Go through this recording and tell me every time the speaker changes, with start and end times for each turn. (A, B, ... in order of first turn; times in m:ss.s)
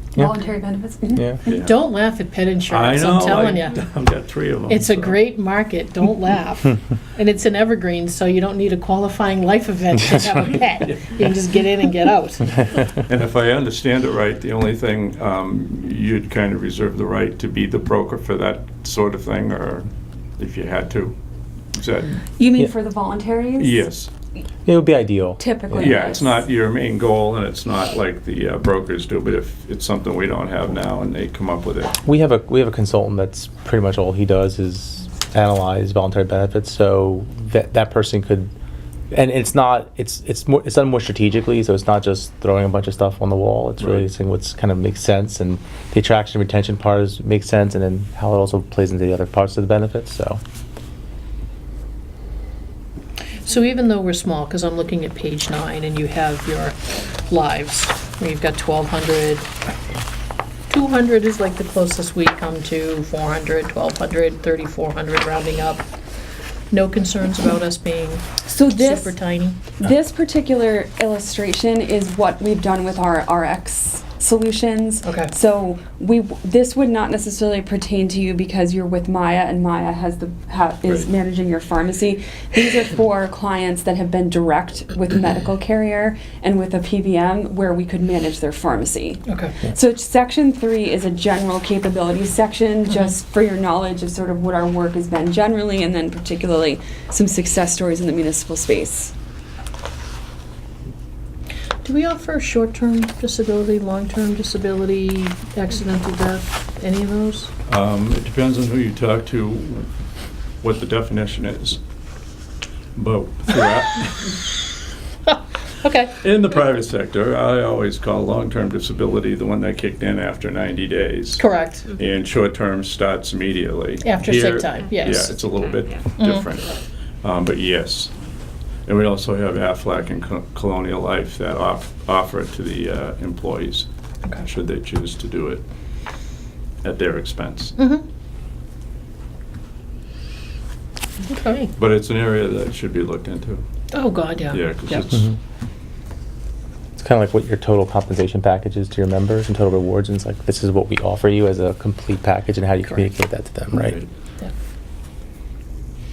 0:00.2-0:01.3 A
0:01.2-0:01.4 B
0:01.4-0:01.8 C
0:01.5-0:03.7 D
0:02.7-0:05.2 C
0:04.7-0:12.6 D
0:10.8-0:11.3 C
0:12.9-0:21.1 C
0:21.7-0:22.2 C
0:22.4-0:23.8 A
0:23.6-0:24.1 C
0:24.6-0:26.0 B
0:25.4-0:26.4 A
0:25.7-0:31.9 C
0:32.0-0:38.5 B
0:39.1-0:50.4 B
0:43.8-0:44.0 C
0:53.4-0:59.5 D
1:00.7-1:05.8 D
1:06.7-1:09.6 D
1:08.4-1:39.1 A
1:15.0-1:15.3 D
1:29.2-1:29.6 D
1:41.8-1:47.5 D
1:47.6-1:49.9 C
1:50.6-1:51.8 C
1:53.0-1:54.4 C
1:55.3-1:56.2 D
1:56.2-2:08.1 C
2:01.4-2:01.9 D
2:04.0-2:05.4 D
2:06.2-2:06.4 D
2:08.8-2:15.6 C
2:16.8-2:17.8 C
2:17.8-2:18.0 D
2:21.3-2:21.7 D
2:21.7-2:23.6 C
2:23.9-2:25.0 D
2:24.5-2:25.3 C
2:27.0-2:34.0 B
2:33.7-2:34.1 C